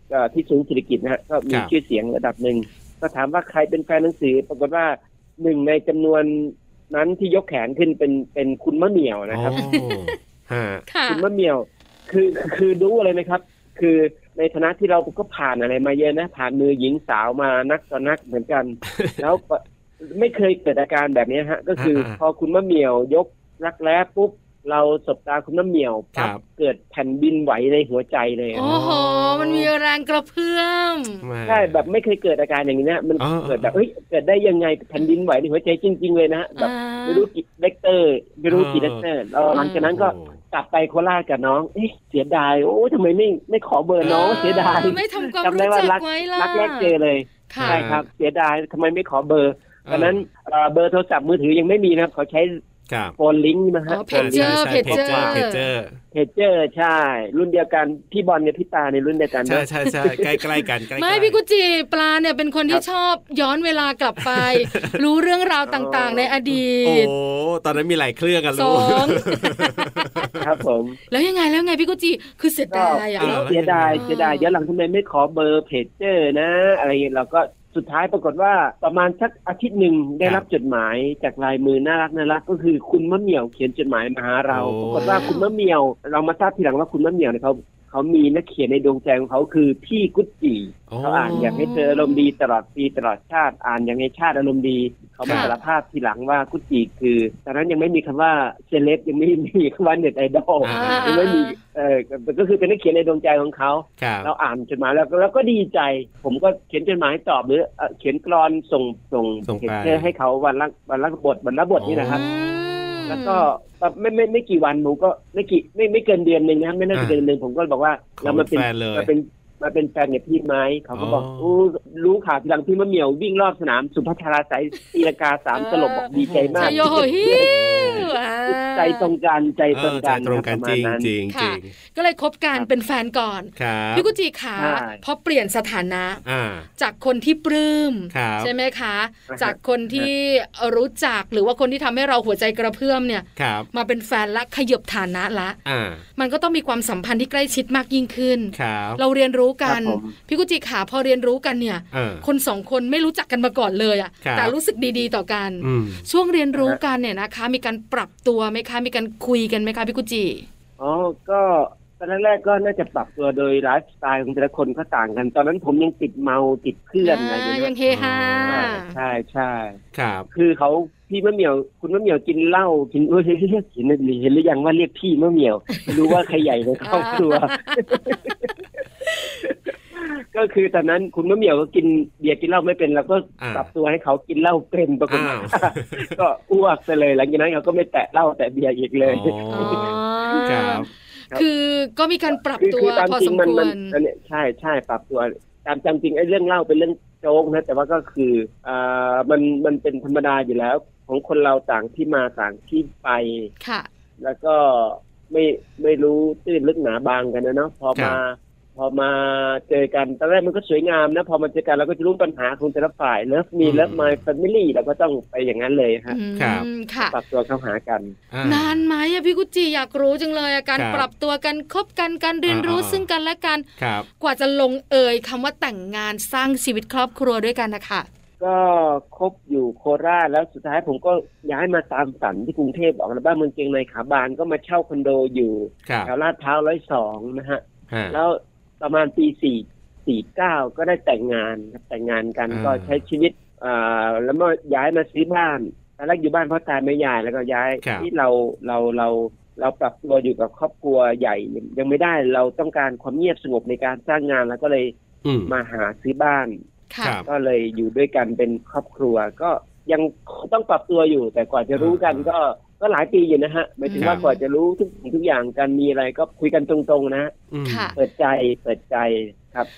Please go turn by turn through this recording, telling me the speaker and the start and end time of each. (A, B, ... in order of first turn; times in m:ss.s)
0:00.1-0:09.7 A
0:09.3-0:10.8 B
0:09.6-0:10.2 C
0:10.9-0:11.2 C
0:11.1-0:28.7 A
0:18.9-0:19.2 B
0:21.8-0:22.2 B
0:26.1-0:26.4 B
0:28.5-0:31.2 C
0:28.6-0:29.6 B
0:31.2-0:31.8 B
0:31.4-0:52.6 A
0:33.2-0:33.7 B
0:36.6-0:37.3 C
0:38.5-0:39.0 B
0:39.5-0:39.9 C
0:39.8-0:40.4 B
0:44.0-0:45.0 B
0:44.0-0:46.9 C
0:47.5-0:47.8 C
0:47.6-0:48.0 B
0:49.8-0:50.2 B
0:52.9-0:53.2 B
0:53.2-0:55.4 A
0:53.9-0:55.7 C
0:54.1-0:56.0 B
0:56.1-1:00.3 A
0:59.4-1:01.4 B
1:00.9-1:07.1 C
1:04.2-1:05.0 B
1:05.6-1:06.4 A
1:06.8-1:10.5 B
1:08.5-1:10.3 C
1:10.4-1:11.0 A
1:11.1-1:14.5 C
1:12.7-1:52.2 A
1:13.2-1:14.0 B
1:24.5-1:25.3 B
1:24.9-1:25.5 C
1:30.9-1:31.6 B
1:31.3-1:32.3 C
1:35.2-1:35.5 B
1:35.2-1:35.5 C
1:40.6-1:41.2 B
1:40.7-1:41.6 C
1:44.0-1:44.3 B
1:49.4-1:50.1 B
1:51.8-1:52.2 B
1:52.0-1:53.5 C
1:53.1-2:11.1 A
1:58.2-1:59.1 B
2:00.9-2:01.5 B
2:05.5-2:09.1 C
2:06.2-2:08.1 B
2:09.7-2:11.7 B
2:11.3-2:16.2 C
2:13.6-2:14.1 B
2:14.6-2:15.0 A
2:16.2-2:16.7 B
2:16.8-2:25.6 C
2:18.1-2:18.5 B
2:19.3-2:20.1 A
2:23.4-2:23.7 B
2:25.6-2:26.0 B
2:26.2-2:40.4 C
2:28.5-2:29.0 B
2:29.6-2:30.1 A
2:31.9-2:32.2 B
2:34.2-2:34.5 B
2:35.6-2:36.0 B
2:40.8-2:47.7 A
2:47.0-2:49.0 C
2:47.9-2:48.7 B
2:48.5-2:49.8 A
2:49.9-2:50.3 B
2:50.3-2:58.5 A
2:56.8-2:58.1 C
2:59.2-3:10.5 A
3:03.4-3:03.7 B
3:05.1-3:06.2 B
3:09.0-3:10.9 B
3:09.5-3:14.0 C
3:12.6-3:23.5 A
3:23.6-3:23.9 C
3:24.2-3:36.2 A
3:27.9-3:28.2 B
3:33.6-3:34.2 B
3:36.1-3:37.1 C
3:36.4-3:36.7 B
3:37.0-3:38.2 A
3:38.3-3:38.8 B
3:38.4-3:43.6 C
3:40.7-3:41.1 B
3:42.4-3:43.0 B
3:43.8-3:44.1 B
3:44.2-3:48.1 C
3:48.4-4:14.9 A
3:55.8-3:56.1 B
3:57.9-3:58.2 B
4:02.5-4:03.0 B
4:07.8-4:08.1 B
4:15.2-4:15.5 B
4:15.4-4:16.6 A
4:16.9-4:17.2 C
4:17.2-4:27.3 A
4:21.8-4:22.2 B
4:23.8-4:24.4 C
4:27.5-4:28.0 B
4:27.6-4:28.0 C
4:28.0-4:29.7 A